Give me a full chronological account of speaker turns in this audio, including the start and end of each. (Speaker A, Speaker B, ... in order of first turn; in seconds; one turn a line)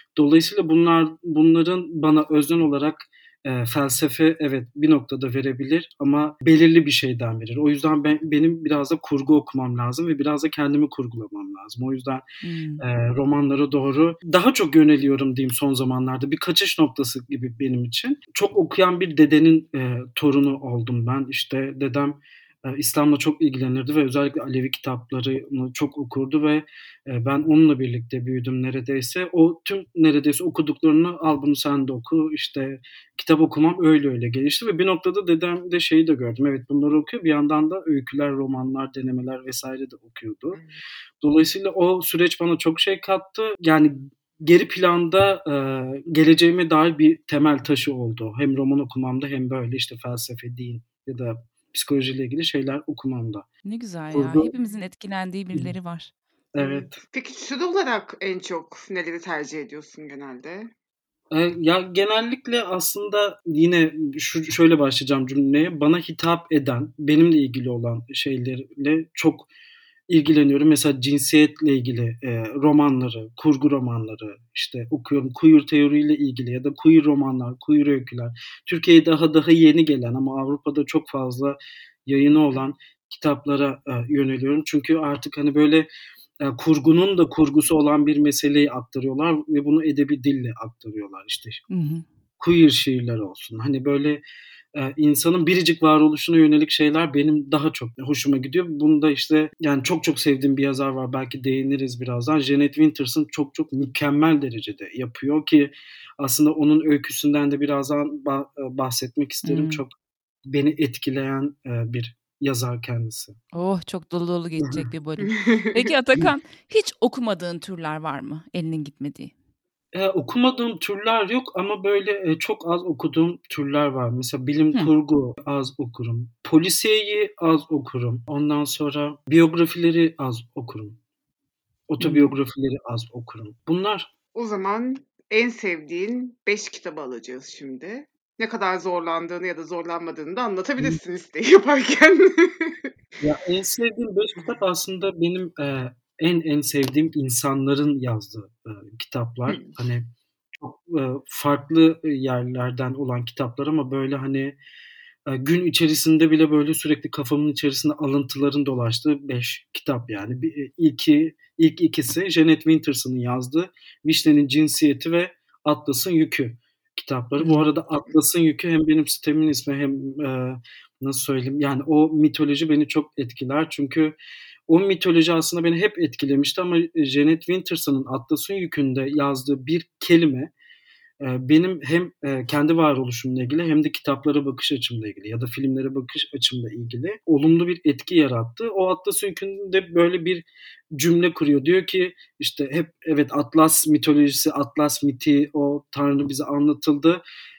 Speaker A: 0.1-12.2
Speaker B: 12.4-12.8
Speaker A: 12.8-40.6
Speaker C: 40.5-40.8
Speaker A: 41.2-53.5
Speaker B: 53.6-56.1
Speaker A: 54.1-54.5
Speaker A: 56.5-57.0
Speaker C: 56.6-60.7
Speaker A: 61.3-69.5
Speaker A: 70.1-85.9
Speaker A: 86.4-91.6
Speaker B: 91.7-92.0
Speaker A: 92.4-94.2
Speaker A: 94.7-109.9
Speaker B: 109.4-109.8
Speaker A: 110.5-113.4
Speaker B: 113.5-119.3
Speaker A: 114.6-114.9
Speaker C: 115.2-115.9
Speaker A: 119.9-131.0
Speaker A: 131.9-134.1
Speaker B: 132.0-132.3
Speaker C: 134.3-142.9
Speaker A: 143.2-150.1
Speaker A: 150.6-154.6
Speaker A: 155.2-174.1
Speaker B: 167.4-167.7
Speaker A: 174.7-180.5
Speaker A: 181.2-197.2